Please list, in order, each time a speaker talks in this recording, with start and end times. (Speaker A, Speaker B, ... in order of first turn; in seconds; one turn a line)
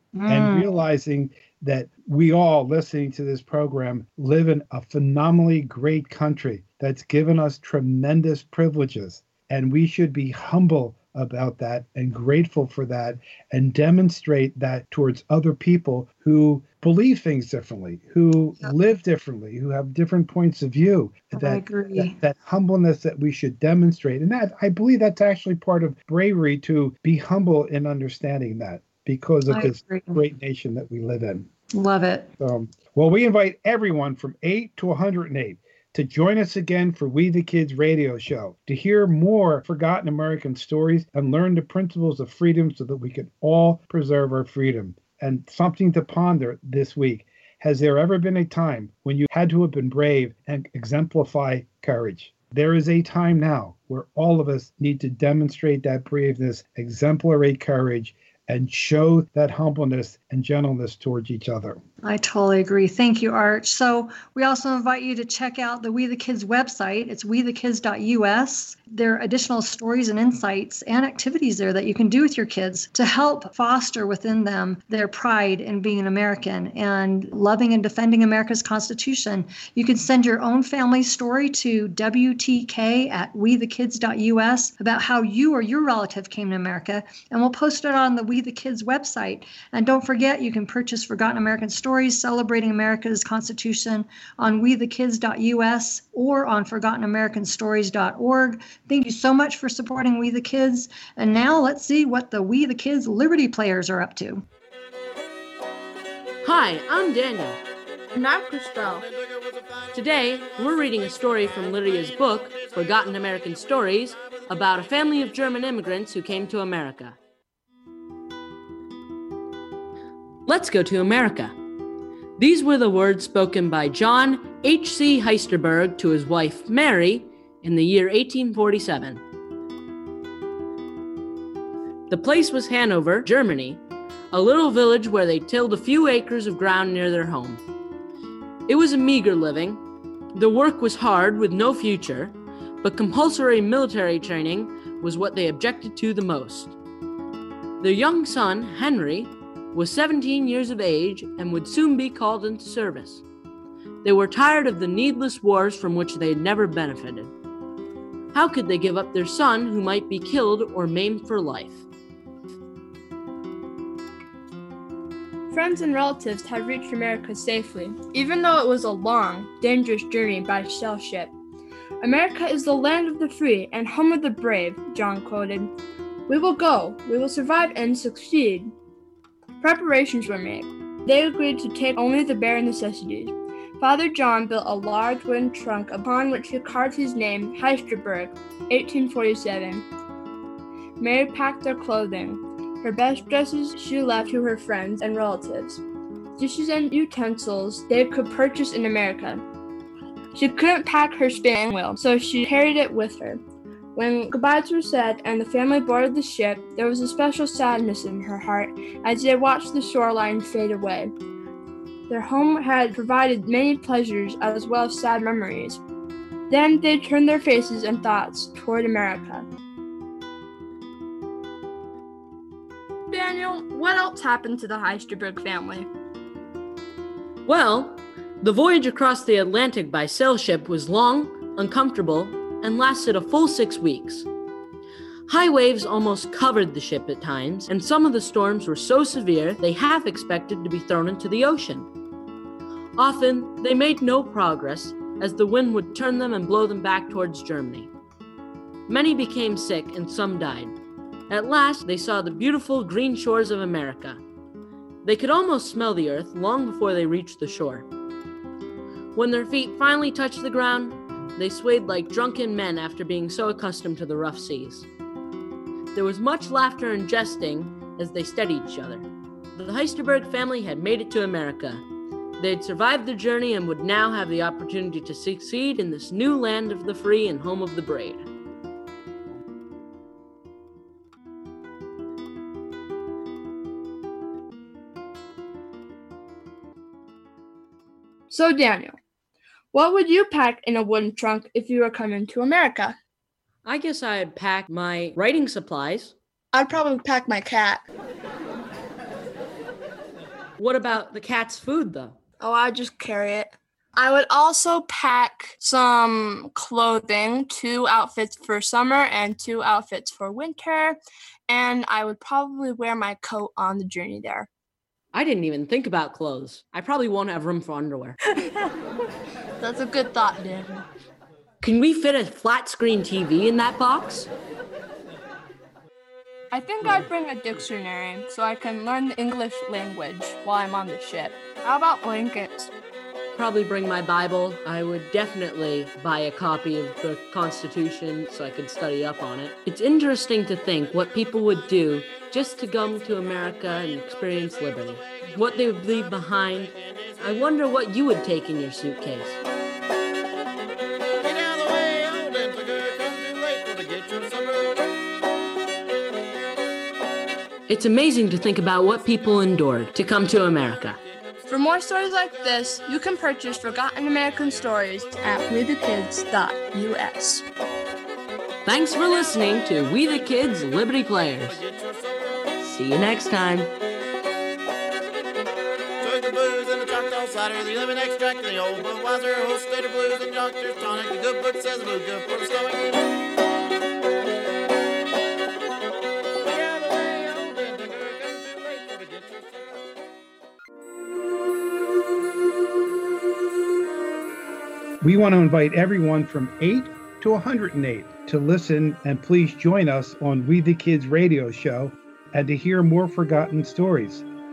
Speaker A: 0.1-0.7
Speaker B: 0.3-31.5
Speaker A: 21.4-22.1
Speaker A: 29.5-30.2
Speaker A: 31.7-32.3
Speaker B: 32.4-61.8
Speaker A: 62.0-104.5
Speaker C: 106.4-107.6
Speaker D: 108.2-109.1
Speaker C: 109.9-117.2
Speaker C: 120.5-121.5
Speaker C: 122.4-129.2
Speaker C: 132.1-133.8
Speaker C: 134.3-137.6
Speaker C: 138.7-139.8
Speaker C: 140.3-146.8
Speaker C: 147.8-153.2
Speaker C: 154.0-157.3
Speaker C: 158.3-161.8
Speaker D: 165.5-171.3
Speaker D: 172.0-175.7
Speaker D: 176.3-178.7
Speaker D: 179.6-189.9
Speaker D: 191.0-195.8
Speaker D: 196.4-199.4
Speaker D: 200.3-203.4
Speaker D: 203.9-211.1
Speaker D: 212.1-215.8
Speaker D: 216.5-219.5
Speaker D: 223.1-225.9
Speaker C: 227.5-234.3
Speaker C: 235.3-241.9
Speaker C: 243.0-247.9
Speaker C: 248.9-250.8
Speaker C: 251.3-254.2
Speaker C: 255.0-257.9
Speaker C: 259.1-264.9
Speaker C: 265.9-271.8
Speaker C: 272.4-278.2
Speaker D: 288.3-288.9
Speaker D: 289.7-293.0
Speaker C: 293.6-296.1
Speaker D: 296.5-297.8
Speaker C: 300.6-302.2
Speaker D: 302.4-314.5
Speaker C: 315.1-318.2
Speaker D: 318.3-318.7
Speaker D: 319.6-320.9
Speaker C: 321.6-324.3
Speaker D: 326.5-332.7
Speaker C: 333.4-349.4
Speaker E: 351.2-354.6
Speaker C: 357.7-361.0
Speaker D: 361.5-367.4
Speaker C: 368.7-371.6
Speaker C: 372.6-373.7
Speaker E: 376.0-382.8
Speaker E: 386.4-389.4
Speaker B: 395.0-404.2